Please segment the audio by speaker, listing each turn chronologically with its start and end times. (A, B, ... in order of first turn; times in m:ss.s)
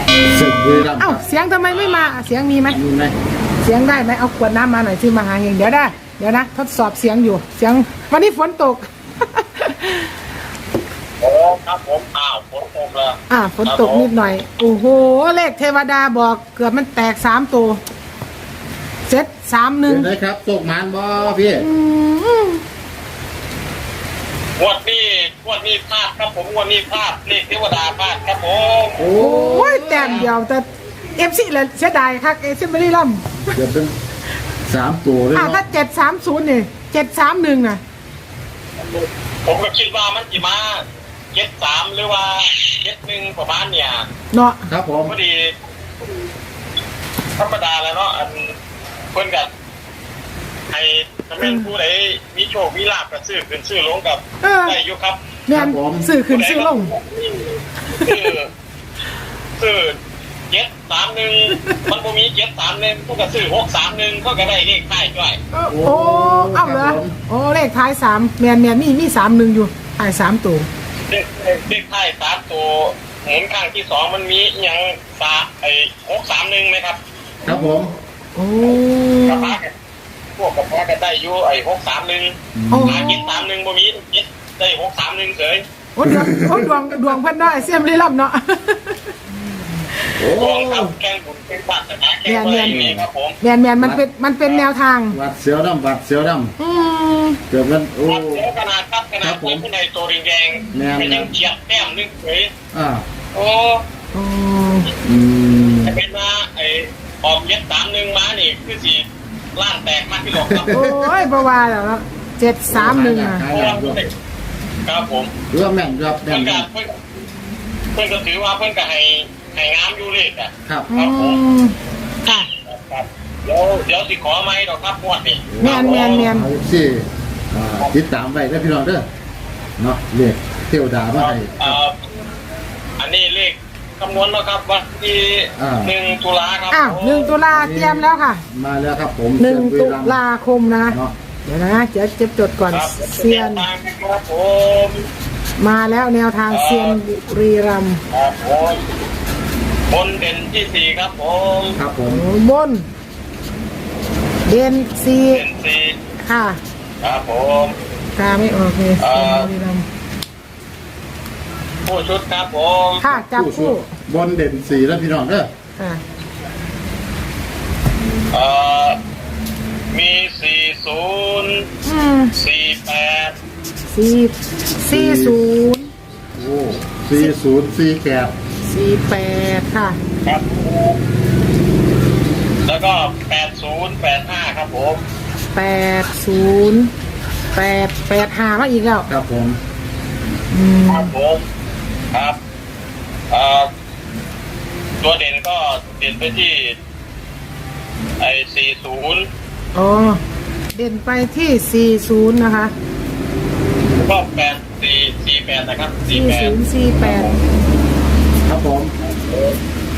0:00.2-0:01.2 A
0:01.0-0:02.8 B
0:01.7-0:02.2 C
0:02.7-0:03.2 A
0:03.6-0:10.1 B
0:11.2-0:14.1 C
0:13.3-0:17.8 B
0:19.1-0:20.1 B
0:19.9-0:21.7 A
0:21.6-0:22.6 B
0:24.6-0:29.0 C
0:29.0-0:30.3 A
0:29.2-0:33.6 B
0:33.5-0:34.0 A
0:34.7-0:35.6 A
0:35.3-0:37.8 B
0:38.8-0:44.1 C
0:44.3-0:44.7 B
0:44.7-0:45.2 A
0:45.0-0:45.5 C
0:47.4-0:48.6 C
0:49.1-0:49.5 C
0:50.7-0:55.4 C
0:51.4-0:51.7 B
0:54.4-0:54.8 B
0:55.5-0:56.9 B
0:55.5-0:56.1 A
0:56.2-0:58.5 C
0:57.9-0:58.3 B
0:59.6-1:00.0 C
1:00.5-1:05.4 C
1:05.5-1:10.7 B
1:05.7-1:07.2 A
1:11.1-1:17.0 C
1:17.5-1:17.9 A
1:18.4-1:19.6 B
1:18.6-1:19.7 C
1:20.4-1:25.7 C
1:22.5-1:23.1 A
1:22.7-1:23.5 B
1:26.0-1:29.2 B
1:26.1-1:26.7 A
1:29.8-1:30.2 B
1:30.2-1:30.9 A
1:30.3-1:33.4 C
1:32.2-1:32.9 B
1:32.6-1:33.1 A
1:33.4-1:35.2 B
1:35.1-1:36.5 A
1:36.6-1:37.4 B
1:37.5-1:38.5 A
1:38.1-1:42.5 C
1:39.2-1:39.6 A
1:40.7-1:41.3 A
1:42.7-1:43.1 A
1:43.3-1:43.8 C
1:44.1-1:44.9 B
1:45.0-1:46.0 A
1:45.8-1:50.8 C
1:50.3-1:51.2 A
1:50.7-1:53.5 B
1:52.7-1:54.0 A
1:53.5-1:54.1 C
1:54.9-1:55.3 C
1:55.5-1:56.7 A
1:56.2-1:57.0 C
1:58.0-2:01.4 C
2:00.7-2:00.9 A
2:00.9-2:02.5 B
2:02.3-2:06.3 C
2:05.5-2:09.1 A
2:05.6-2:06.5 B
2:09.8-2:11.8 A
2:11.1-2:12.0 C
2:13.0-2:17.4 C
2:15.6-2:15.9 A
2:16.7-2:18.4 B
2:17.5-2:20.2 A
2:19.4-2:23.7 B
2:22.7-2:25.1 C
2:25.6-2:28.0 B
2:26.5-2:27.0 C
2:28.1-2:28.8 C
2:29.9-2:31.8 C
2:31.8-2:32.2 A
2:32.0-2:32.9 B
2:34.5-2:35.4 B
2:35.3-2:36.0 C
2:36.2-2:36.6 B
2:37.0-2:37.8 C
2:38.2-2:39.9 B
2:39.0-2:39.5 C
2:41.9-2:43.0 C
2:43.0-2:43.9 B
2:43.1-2:45.5 A
2:45.8-2:46.0 B
2:48.3-2:49.0 C
2:49.9-2:51.7 C
2:51.8-2:52.3 B
2:52.3-2:53.4 C
2:53.9-2:55.9 B
2:54.9-2:55.5 A
2:56.3-2:58.3 A
2:58.6-3:00.0 B
3:00.2-3:01.0 C
3:02.7-3:05.0 C
3:05.5-3:06.9 B
3:07.5-3:09.1 B
3:09.1-3:09.6 A
3:10.5-3:11.1 B
3:10.9-3:11.4 C
3:12.1-3:12.4 C
3:13.3-3:13.7 C
3:15.0-3:16.8 C
3:18.2-3:19.3 C
3:19.7-3:20.2 B
3:20.7-3:22.7 B
3:24.0-3:27.4 C
3:26.1-3:27.3 B
3:28.4-3:28.9 A
3:29.0-3:29.6 C